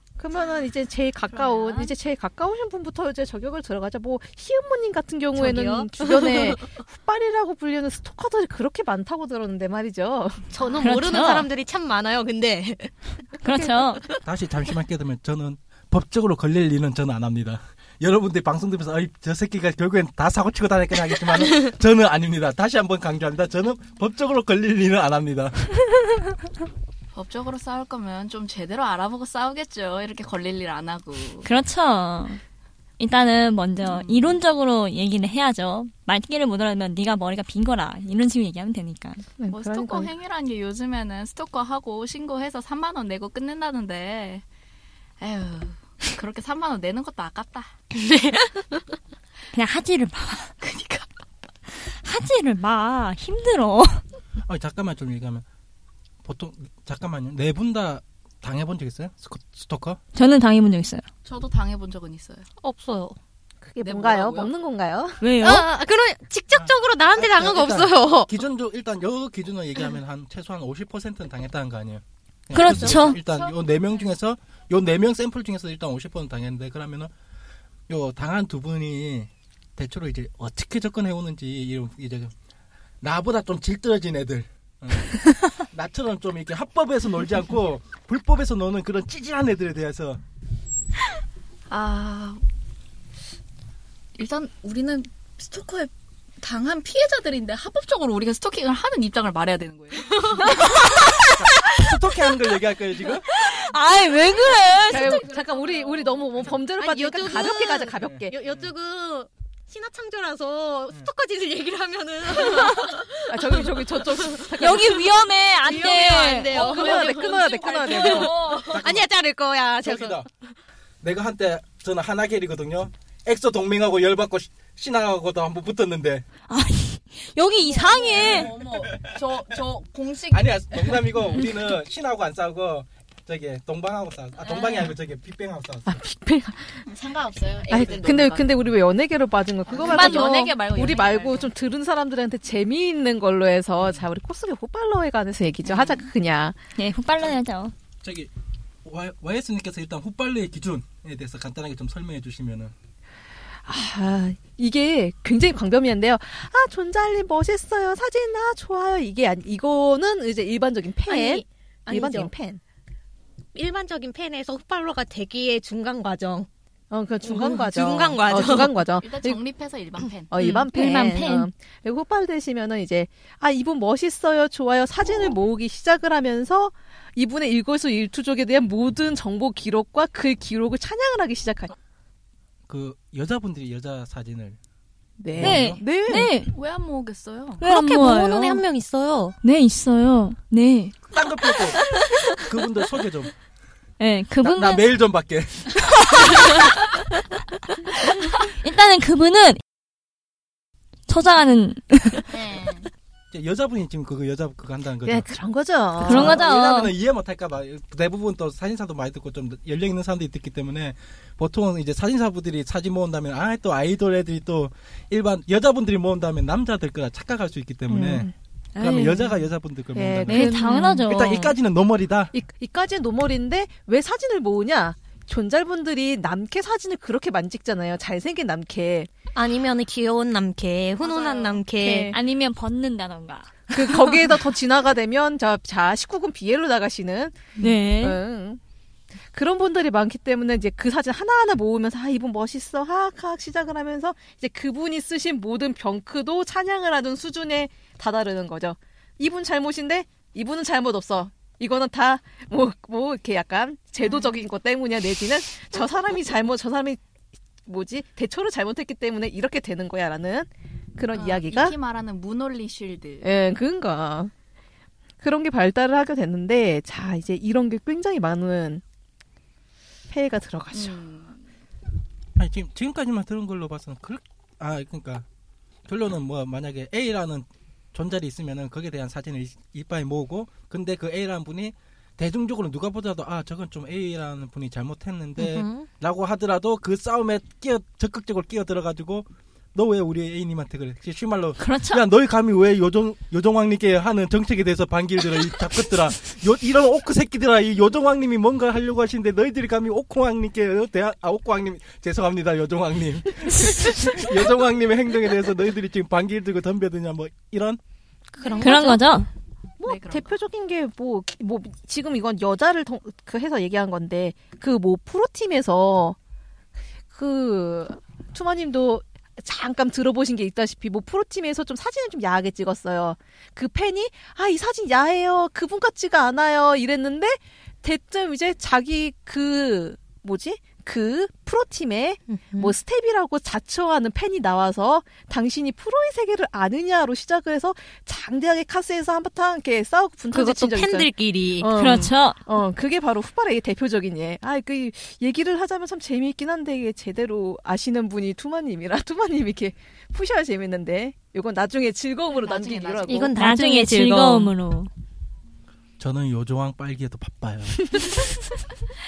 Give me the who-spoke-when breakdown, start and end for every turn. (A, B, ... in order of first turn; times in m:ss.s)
0:00.2-0:11.2 A
0:01.3-0:01.9 B
0:05.3-0:06.7 C
0:10.5-0:13.0 C
0:10.8-0:11.5 D
0:13.4-0:14.0 D
0:14.2-0:25.8 E
0:27.1-0:31.5 B
0:31.4-0:32.4 D
0:33.0-0:39.2 D
0:33.8-0:34.3 B
0:39.4-0:40.1 A
0:39.5-0:44.4 B
0:45.2-0:47.7 B
0:47.9-0:48.6 C
0:49.5-0:50.5 D
0:50.6-0:51.1 B
0:51.7-0:54.0 D
0:54.4-0:55.4 E
0:56.2-1:00.0 E
1:00.1-1:01.0 D
1:01.2-1:02.4 B
1:02.6-1:03.2 C
1:03.6-1:05.3 A
1:03.8-1:04.5 B
1:05.2-1:05.7 D
1:05.4-1:08.3 C
1:06.5-1:17.1 E
1:12.5-1:13.2 D
1:13.1-1:13.6 B
1:17.9-1:22.3 E
1:23.0-1:30.2 E
1:31.7-1:32.4 B
1:34.2-1:40.4 B
1:40.6-1:41.0 D
1:41.2-1:43.3 E
1:43.3-1:45.2 D
1:44.8-1:46.4 B
1:44.9-1:48.3 A
1:46.8-1:54.8 C
1:48.3-1:48.7 E
1:53.3-1:55.1 A
1:54.6-1:56.8 D
1:55.6-2:00.2 C
1:56.5-1:58.8 B
1:56.5-1:58.5 A
1:58.7-1:59.1 E
1:59.8-2:00.2 E
2:01.0-2:06.2 E
2:06.5-2:08.5 D
2:07.6-2:08.4 C
2:07.7-2:11.1 B
2:08.2-2:09.2 E
2:10.3-2:15.9 E
2:14.4-2:15.0 B
2:15.9-2:16.8 A
2:16.8-2:18.5 B
2:17.7-2:26.6 A
2:19.7-2:21.5 B
2:19.8-2:20.3 D
2:25.6-2:26.0 B
2:26.8-2:27.7 D
2:28.0-2:28.3 E
2:28.8-2:32.7 E
2:33.6-2:42.6 A
2:41.1-2:42.3 C
2:43.5-2:46.5 C
2:46.9-2:49.4 A
2:47.2-2:48.8 C
2:49.0-2:50.3 B
2:50.3-3:01.7 A
2:50.4-2:51.5 D
3:02.7-3:04.6 E
3:05.2-3:06.3 A
3:05.3-3:05.8 E
3:05.4-3:06.5 D
3:06.5-3:07.6 B
3:07.6-3:08.6 D
3:07.6-3:09.4 C
3:09.4-3:10.9 D
3:11.0-3:13.3 E
3:14.0-3:14.9 D
3:14.4-3:16.5 E
3:15.8-3:16.7 D
3:18.4-3:19.6 D
3:21.1-3:22.3 D
3:22.3-3:22.9 B
3:23.3-3:25.3 E
3:25.0-3:26.4 A
3:26.0-3:42.3 E
3:26.0-3:26.9 D
3:37.9-3:38.3 A
3:38.8-3:39.3 D
3:39.9-3:41.0 A
3:40.2-3:41.6 D
3:42.3-3:49.1 A
3:49.3-3:52.2 C
3:51.0-3:51.6 B
3:51.7-3:52.2 A
3:52.1-3:54.2 D
3:53.7-3:58.6 A
3:57.6-3:58.2 D
3:59.3-4:17.0 A
4:14.0-4:14.3 B
4:17.6-4:21.7 A
4:21.1-4:23.3 B
4:23.2-4:24.3 A
4:25.2-4:28.8 A
4:30.1-4:31.0 A
4:30.7-4:31.4 B
4:32.4-4:35.2 E
4:35.8-5:07.8 E
4:45.4-4:45.9 C
4:51.6-4:52.0 D
5:08.4-5:09.0 C
5:08.4-5:09.0 A
5:08.6-5:09.3 D
5:09.8-5:16.2 A
5:09.8-5:10.3 B
5:17.1-5:53.3 A
5:32.3-5:32.7 C
5:40.3-5:41.7 C
5:41.7-5:42.4 D
5:52.3-5:53.3 B
5:53.1-5:54.5 C
5:53.3-5:54.9 D
5:56.0-5:58.3 E